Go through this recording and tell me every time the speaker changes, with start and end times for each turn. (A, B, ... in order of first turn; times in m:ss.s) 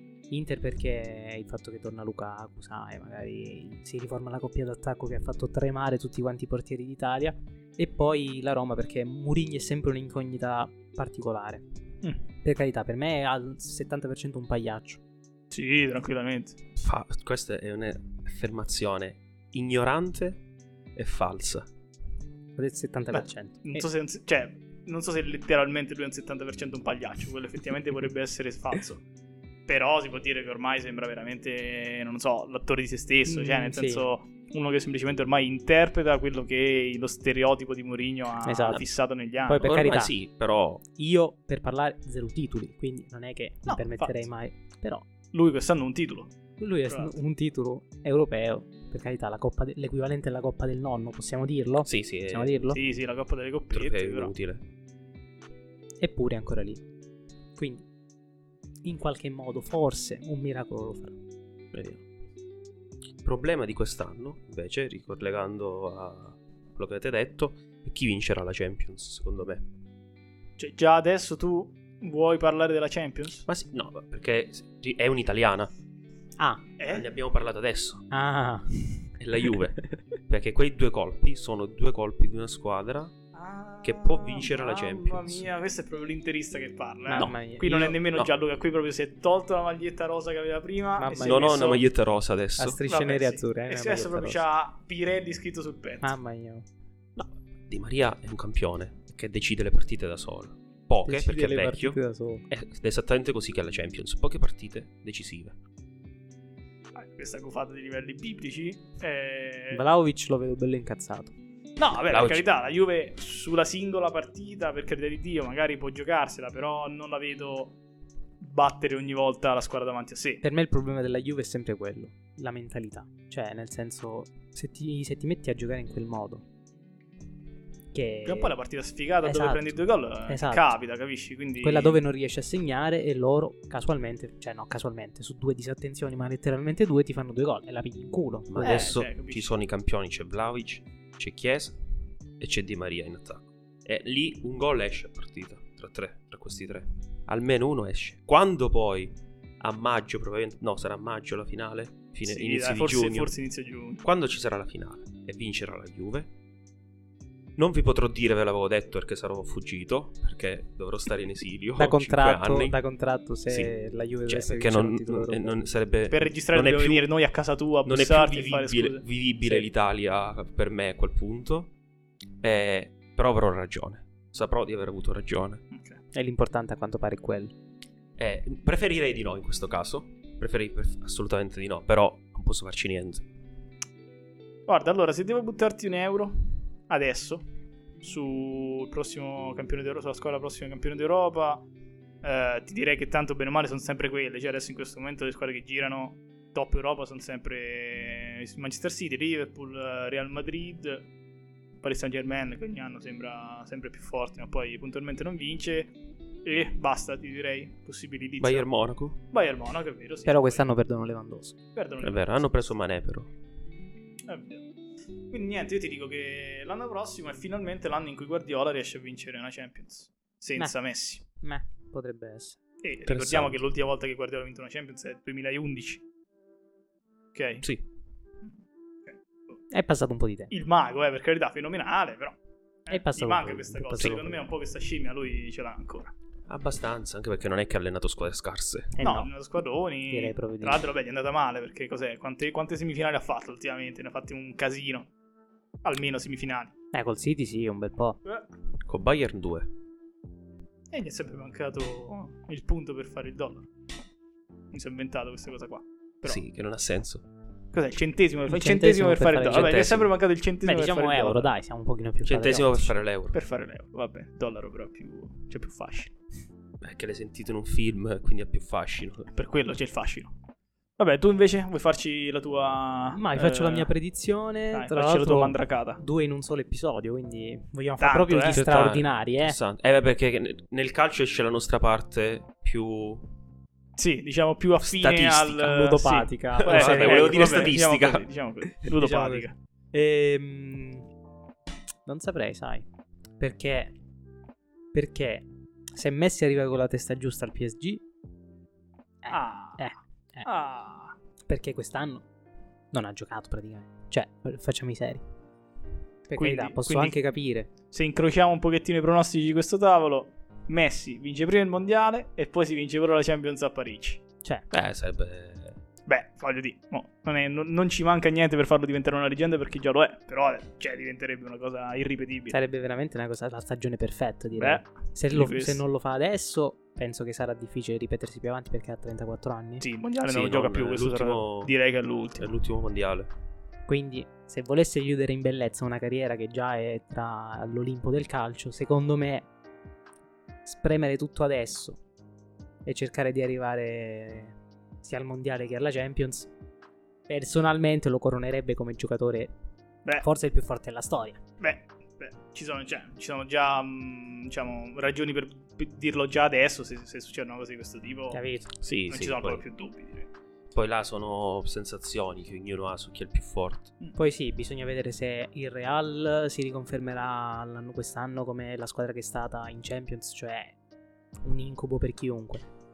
0:00.3-0:11.6 A
0:12.4-0:15.0 A
0:15.5-0:16.6 B
0:16.8-0:20.4 C
0:21.0-0:21.7 C
0:22.6-0:23.8 A
0:23.1-0:29.0 B
0:29.7-0:39.7 B
0:33.3-0:34.1 A
0:38.4-0:38.8 A
0:39.5-0:40.1 A
0:39.6-0:40.8 C
0:41.0-0:45.1 A
0:43.7-0:44.3 B
0:45.3-0:46.4 B
0:46.6-0:52.8 A
0:46.9-0:47.2 B
0:51.9-0:52.6 C
0:52.7-0:54.3 B
0:53.7-0:54.6 C
0:56.0-0:56.8 A
0:57.6-0:57.8 A
0:58.8-1:01.2 A
1:01.7-1:02.0 C
1:03.2-1:09.7 C
1:10.6-1:13.4 B
1:13.5-1:15.7 C
1:16.4-1:16.6 A
1:16.8-1:17.1 B
1:16.9-1:18.0 C
1:18.1-1:19.1 A
1:19.2-1:23.1 C
1:23.3-1:31.9 B
1:23.8-1:25.5 C
1:27.1-1:28.0 A
1:27.1-1:27.4 C
1:31.0-1:31.7 A
1:31.2-1:32.8 C
1:32.6-1:34.4 A
1:32.9-1:36.2 B
1:36.0-1:36.7 A
1:37.2-1:42.0 C
1:41.0-1:42.4 A
1:42.5-1:45.6 C
1:47.0-1:49.8 B
1:49.7-1:51.3 A
1:51.8-1:57.8 B
1:52.1-1:52.5 C
1:58.4-2:00.4 B
2:00.4-2:06.4 A
2:07.9-2:08.6 A
2:08.3-2:12.0 B
2:09.2-2:10.8 A
2:11.6-2:18.9 A
2:18.5-2:21.8 C
2:18.6-2:19.5 B
2:22.4-2:33.3 C
2:32.3-2:34.0 B
2:34.0-2:36.3 C
2:37.6-2:42.8 C
2:41.8-2:45.6 A
2:43.5-2:43.7 C
2:44.3-2:47.1 C
2:46.1-2:49.0 B
2:47.8-2:51.7 C
2:52.4-2:55.6 C
2:55.7-2:56.0 B
2:56.1-2:57.6 A
2:58.2-3:03.3 C
3:04.7-3:07.4 B
3:08.0-3:11.7 B
3:12.2-3:21.1 B
3:21.8-3:28.7 B
3:28.4-3:29.2 C
3:29.3-3:30.6 B
3:30.3-3:31.6 A
3:31.8-3:32.6 B
3:32.0-3:33.3 C
3:34.3-3:34.6 B
3:35.3-3:41.2 B
3:40.6-3:42.6 A
3:42.8-3:46.0 B
3:43.1-3:43.6 C
3:47.3-3:47.6 B
3:48.4-3:49.6 B
3:49.7-3:50.5 A
3:50.5-3:56.1 B
3:52.9-3:54.4 A
3:54.0-3:54.2 C
3:56.5-3:59.0 C
3:59.0-3:59.3 A
3:59.0-4:05.1 B
4:00.1-4:00.9 A
4:05.8-4:06.7 B
4:06.9-4:08.2 A
4:08.9-4:09.7 C
4:10.9-4:13.7 B
4:14.7-4:16.4 B
4:16.2-4:17.2 C
4:17.7-4:21.5 B
4:18.5-4:19.8 A
4:19.5-4:20.1 C
4:20.6-4:22.9 A
4:22.2-4:23.4 C
4:23.3-4:26.1 B
4:26.8-4:29.3 C
4:29.4-4:30.4 B
4:31.0-4:33.9 B
4:33.2-4:39.6 A
4:34.7-4:36.0 B
4:38.0-4:38.6 B
4:38.5-4:43.3 C
4:44.0-4:49.5 B
4:44.8-4:45.8 C
4:45.6-4:47.7 A
4:46.6-4:48.3 C
4:49.0-4:51.1 A
4:52.1-4:52.9 A
4:53.4-4:53.9 A
4:54.9-4:58.0 A
4:59.2-5:00.5 A
4:59.3-4:59.9 B
5:00.4-5:01.2 B
5:01.5-5:02.3 A
5:02.9-5:05.2 A
5:06.3-5:07.7 A
5:06.4-5:07.2 B
5:07.9-5:14.2 B
5:14.7-5:15.8 C
5:16.1-5:22.6 B
5:22.5-5:29.8 A
5:24.6-5:25.8 B
5:29.8-5:32.5 B
5:30.3-5:31.7 C
5:32.4-5:33.3 C
5:33.9-5:39.5 A
5:40.6-5:42.0 A
5:42.8-5:46.5 A
5:47.3-5:49.5 A
5:50.2-5:51.4 A
5:51.6-5:58.4 B
5:58.3-5:58.7 A
5:58.8-5:59.6 C
5:59.1-6:00.3 B
6:00.7-6:03.9 C
6:04.2-6:10.8 A
6:11.4-6:12.6 A